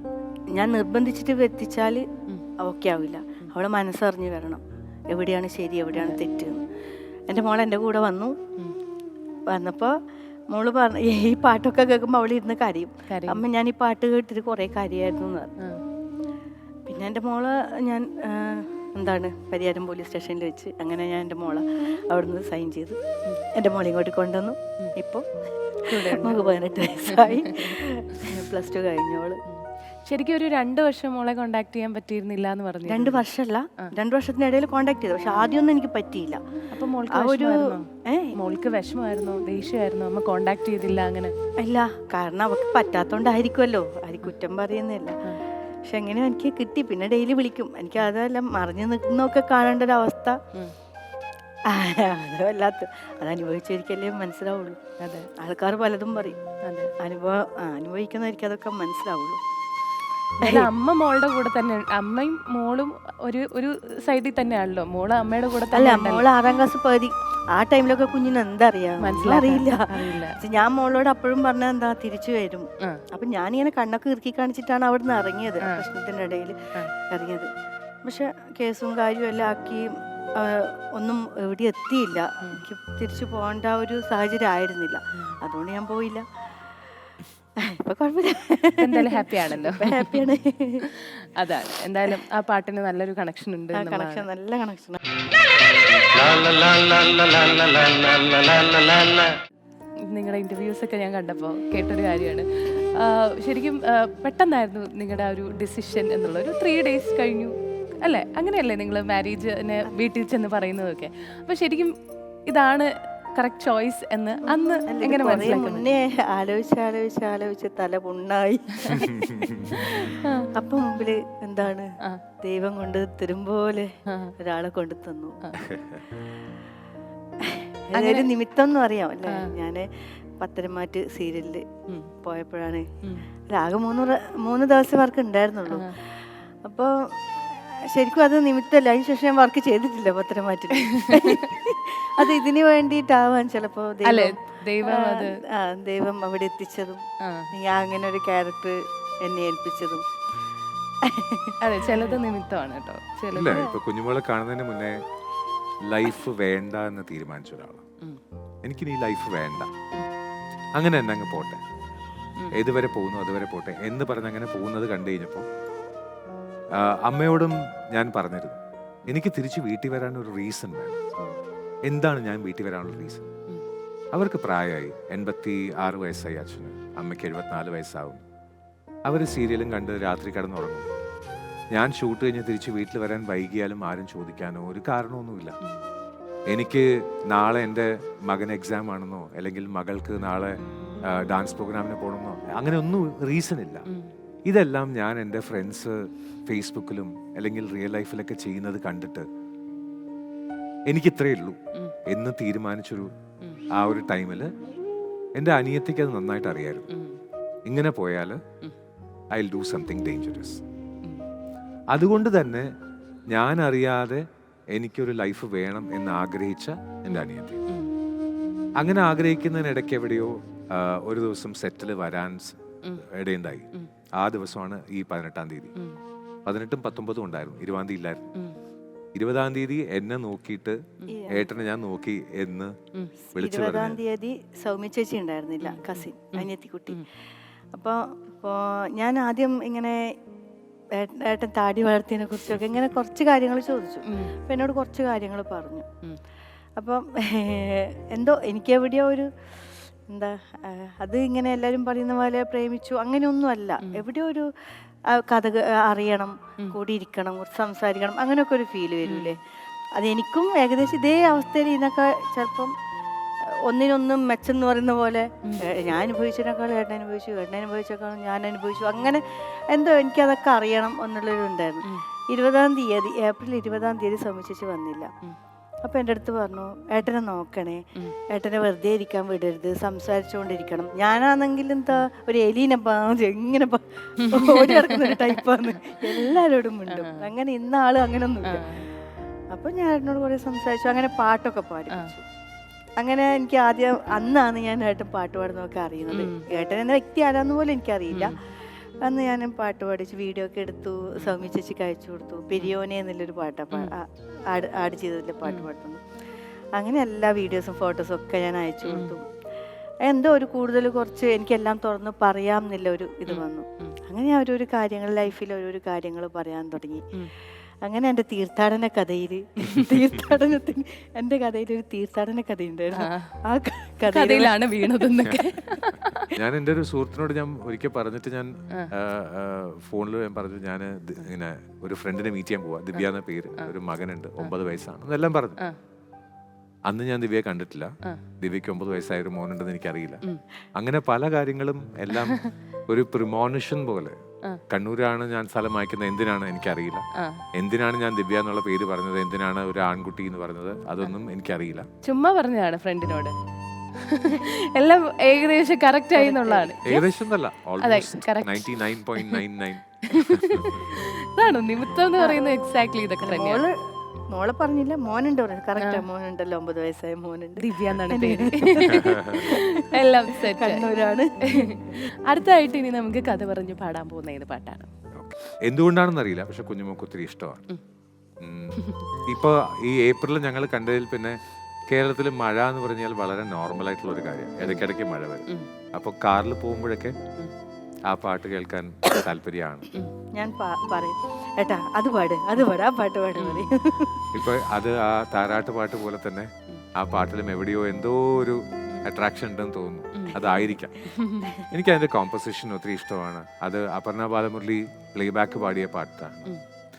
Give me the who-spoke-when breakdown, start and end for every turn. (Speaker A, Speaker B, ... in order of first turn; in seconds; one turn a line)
Speaker A: 0.5-2.0
Speaker A: 2.6-6.6
Speaker B: 5.9-6.2
Speaker A: 7.3-8.3
Speaker A: 9.5-9.9
Speaker A: 10.5-15.5
Speaker B: 13.1-13.4
Speaker A: 16.9-23.0
Speaker A: 23.6-25.2
Speaker B: 25.9-26.6
Speaker A: 25.9-29.4
Speaker B: 27.1-27.7
Speaker B: 29.5-33.2
Speaker A: 32.9-36.4
Speaker B: 36.7-41.3
Speaker A: 37.1-38.3
Speaker A: 41.6-45.2
Speaker A: 45.9-50.4
Speaker A: 51.7-54.8
Speaker B: 55.0-55.3
Speaker A: 55.4-56.4
Speaker B: 56.7-56.9
Speaker A: 57.0-59.4
Speaker B: 60.4-66.3
Speaker A: 60.4-60.7
Speaker A: 65.7-76.6
Speaker B: 69.0-70.3
Speaker A: 77.1-77.5
Speaker A: 78.0-86.2
Speaker A: 87.6-90.8
Speaker B: 88.8-90.2
Speaker B: 91.4-94.3
Speaker A: 93.7-95.0
Speaker A: 96.3-99.2
Speaker B: 100.1-111.9
Speaker B: 112.5-115.9
Speaker A: 114.5-121.9
Speaker B: 119.8-120.5
Speaker A: 122.4-125.4
Speaker C: 125.7-126.0
Speaker A: 127.5-129.9
Speaker B: 127.9-128.3
Speaker A: 130.4-131.7
Speaker A: 132.2-132.9
Speaker A: 133.5-135.9
Speaker A: 136.6-147.0
Speaker B: 140.9-141.4
Speaker B: 144.0-145.3
Speaker B: 147.2-147.5
Speaker A: 147.5-150.0
Speaker A: 151.0-152.1
Speaker B: 151.6-153.7
Speaker C: 153.3-155.0
Speaker A: 153.4-153.8
Speaker C: 155.9-157.8
Speaker C: 158.6-159.7
Speaker C: 160.8-161.6
Speaker C: 162.5-165.4
Speaker C: 166.8-171.0
Speaker C: 171.8-173.2
Speaker C: 174.1-178.2
Speaker C: 179.1-180.9
Speaker C: 181.7-185.6
Speaker C: 186.5-193.8
Speaker C: 194.4-199.3
Speaker C: 200.9-203.1
Speaker C: 203.7-204.5
Speaker C: 205.3-206.9
Speaker B: 206.9-207.2
Speaker C: 207.7-208.4
Speaker C: 209.3-210.6
Speaker C: 211.9-212.7
Speaker C: 213.3-214.2
Speaker C: 214.8-217.6
Speaker B: 217.1-217.9
Speaker C: 218.8-225.7
Speaker C: 226.4-228.3
Speaker C: 229.2-232.8
Speaker A: 231.1-231.4
Speaker C: 233.3-234.0
Speaker A: 233.3-237.0
Speaker B: 235.6-237.0
Speaker A: 237.7-240.0
Speaker A: 241.0-245.8
Speaker B: 244.1-244.3
Speaker A: 246.8-249.3
Speaker A: 250.1-254.5
Speaker A: 255.1-259.4
Speaker B: 259.1-259.4
Speaker A: 260.0-262.7
Speaker A: 263.7-275.1
Speaker A: 275.8-288.6
Speaker B: 284.2-287.3
Speaker B: 288.4-288.8
Speaker A: 289.5-292.2
Speaker A: 293.0-298.4
Speaker B: 296.1-296.4
Speaker B: 298.1-298.4
Speaker A: 299.0-306.0
Speaker B: 305.4-305.7
Speaker A: 306.8-309.2
Speaker B: 308.9-309.2
Speaker A: 310.1-317.0
Speaker B: 313.3-313.9
Speaker A: 317.8-324.6
Speaker B: 322.9-323.3
Speaker B: 324.1-326.3
Speaker C: 326.3-335.6
Speaker B: 332.9-333.7
Speaker C: 336.9-340.2
Speaker C: 340.8-344.1
Speaker C: 344.7-347.0
Speaker B: 347.2-347.4
Speaker C: 347.6-351.9
Speaker B: 352.0-353.3
Speaker B: 354.0-357.1
Speaker A: 356.1-356.7
Speaker C: 356.8-360.8
Speaker B: 357.8-359.4
Speaker B: 360.1-363.6
Speaker A: 363.2-363.7
Speaker A: 364.3-369.8
Speaker B: 365.8-366.0
Speaker B: 367.6-370.9
Speaker C: 369.0-369.4
Speaker A: 370.5-372.0
Speaker B: 371.5-374.9
Speaker C: 375.2-377.6
Speaker C: 378.4-381.4
Speaker B: 378.8-379.1
Speaker C: 381.9-387.2
Speaker C: 388.1-389.9
Speaker A: 390.4-394.2
Speaker B: 393.4-393.7
Speaker C: 394.3-401.1
Speaker B: 400.1-401.6
Speaker C: 401.7-406.5